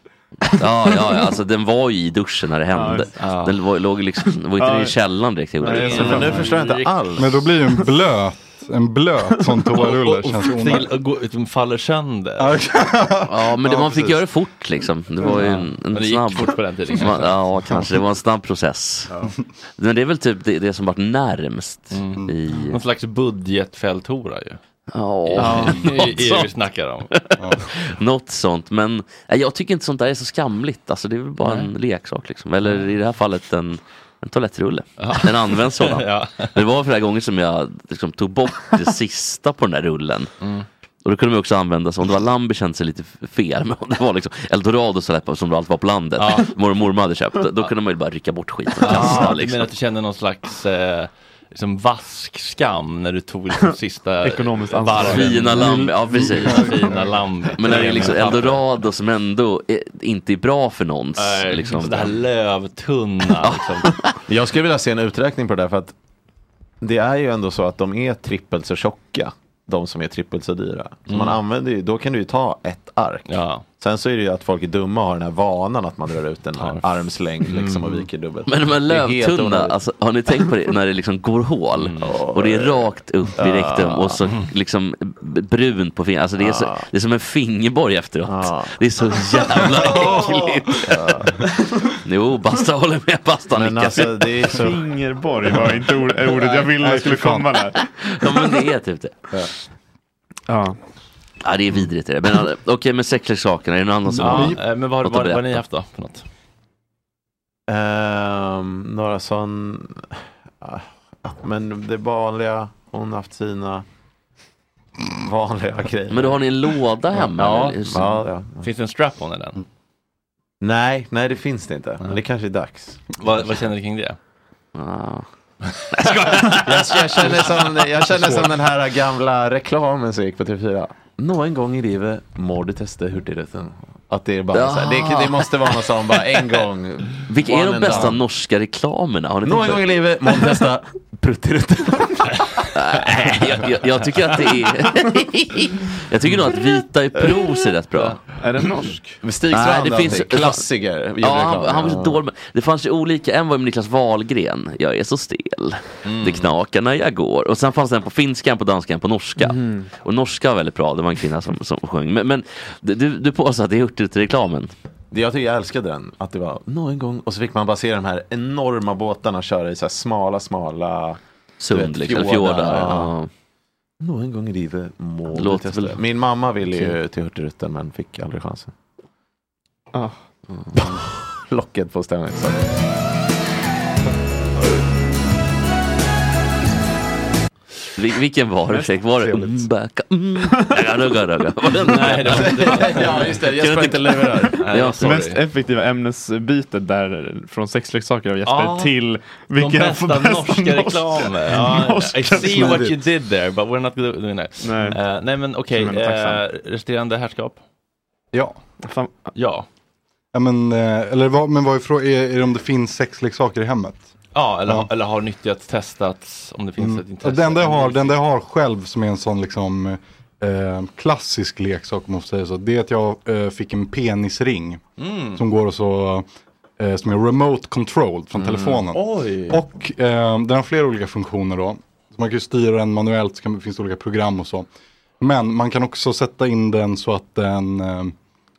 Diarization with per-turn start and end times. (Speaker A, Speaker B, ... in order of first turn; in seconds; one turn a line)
Speaker A: 0.6-6.2
Speaker B: 2.7-3.1
Speaker C: 3.2-3.5
Speaker B: 4.3-5.0
Speaker B: 5.6-6.7
Speaker C: 5.7-6.9
Speaker D: 5.8-7.5
Speaker E: 7.2-10.9
Speaker C: 9.8-12.6
Speaker E: 12.4-14.2
Speaker A: 13.3-19.1
Speaker C: 15.2-17.3
Speaker A: 19.8-22.8
Speaker C: 21.9-24.6
Speaker A: 24.9-26.5
Speaker C: 25.3-27.2
Speaker E: 25.5-25.8
Speaker A: 27.1-40.3
Speaker C: 31.4-31.7
Speaker C: 35.0-36.6
Speaker C: 40.4-40.7
Speaker A: 41.0-49.7
Speaker C: 46.2-46.5
Speaker C: 48.8-58.7
Speaker B: 54.2-56.3
Speaker A: 55.0-56.8
Speaker A: 57.6-62.2
Speaker C: 61.2-64.0
Speaker A: 63.4-64.1
Speaker D: 64.3-65.9
Speaker D: 66.8-79.8
Speaker C: 71.1-71.4
Speaker C: 73.3-73.6
Speaker C: 76.6-78.0
Speaker A: 78.5-90.9
Speaker C: 81.8-82.2
Speaker D: 82.0-84.2
Speaker D: 86.4-86.9
Speaker D: 88.2-88.8
Speaker D: 89.6-90.2
Speaker D: 90.8-91.5
Speaker A: 92.0-94.1
Speaker D: 93.5-94.8
Speaker B: 94.3-97.7
Speaker E: 96.7-97.5
Speaker A: 97.8-99.2
Speaker B: 100.5-100.8
Speaker A: 101.4-105.6
Speaker C: 104.2-106.2
Speaker D: 107.7-113.8
Speaker D: 115.2-116.4
Speaker A: 116.1-118.2
Speaker D: 117.2-118.7
Speaker C: 118.6-119.6
Speaker D: 120.6-123.3
Speaker C: 123.2-124.2
Speaker A: 124.7-125.2
Speaker C: 125.7-127.7
Speaker A: 126.0-126.2
Speaker D: 126.5-138.2
Speaker A: 134.5-135.5
Speaker A: 137.3-139.9
Speaker D: 139.4-142.3
Speaker A: 142.8-148.2
Speaker B: 148.4-149.2
Speaker D: 149.2-152.2
Speaker A: 149.5-150.6
Speaker A: 151.2-164.7
Speaker C: 156.0-156.5
Speaker B: 159.4-159.9
Speaker D: 165.1-171.2
Speaker A: 171.6-173.3
Speaker D: 171.7-173.1
Speaker D: 174.0-178.7
Speaker A: 175.3-176.0
Speaker B: 179.9-180.2
Speaker D: 180.7-182.6
Speaker A: 188.0-192.6
Speaker B: 190.6-190.8
Speaker C: 191.8-193.4
Speaker D: 192.2-194.8
Speaker A: 193.5-195.2
Speaker C: 194.5-195.4
Speaker B: 195.0-202.9
Speaker C: 198.4-198.9
Speaker C: 199.5-207.6
Speaker E: 202.3-203.0
Speaker B: 204.6-205.0
Speaker B: 205.7-206.4
Speaker B: 208.8-209.3
Speaker C: 209.3-209.7
Speaker E: 210.3-214.1
Speaker C: 214.3-218.1
Speaker E: 216.8-224.8
Speaker C: 225.0-225.4
Speaker E: 225.3-226.2
Speaker E: 226.8-234.7
Speaker D: 228.3-228.8
Speaker C: 228.9-229.6
Speaker E: 235.2-238.1